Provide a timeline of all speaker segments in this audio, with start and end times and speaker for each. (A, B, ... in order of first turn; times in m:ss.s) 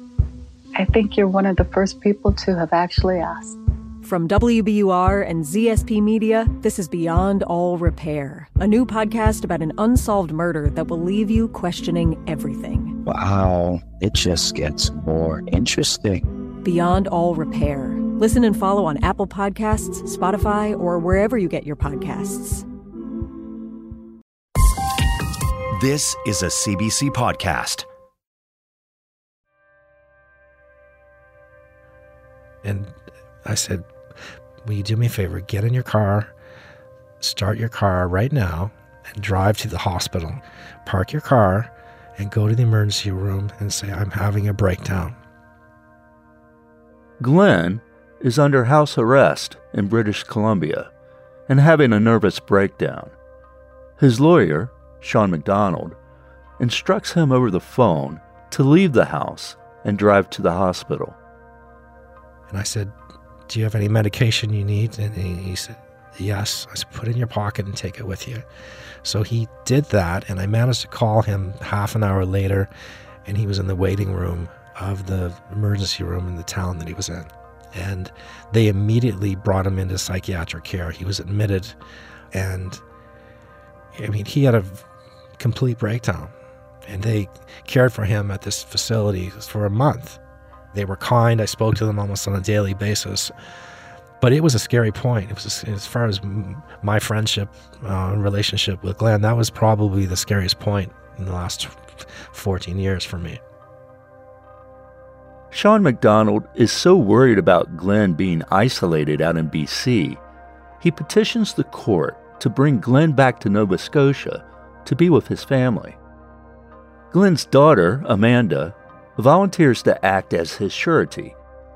0:00.7-0:03.6 A
0:04.0-0:13.0 B
0:13.1-0:16.2 C
0:16.6-0:22.6 B
0:25.7-0:27.8 D
0:32.6-0:33.9 E
0:34.6-0:36.3 E
0:37.2-0:45.2 E
0:47.2-0:50.9 F
0:51.5-0:53.1 F
0:54.0-0:56.0 F
0:56.6-1:01.2 F
1:02.5-1:02.9 E
1:03.5-1:08.4 E
1:09.0-1:12.7 E
1:13.2-1:21.8 E
1:22.3-1:22.8 E
1:23.9-1:24.8 E
1:25.4-1:26.3 E
1:26.8-1:30.2 E
1:30.7-1:33.3 E
1:34.2-1:43.4 E
1:45.5-1:50.2 F
1:50.8-1:56.0 F
1:57.1-2:01.4 F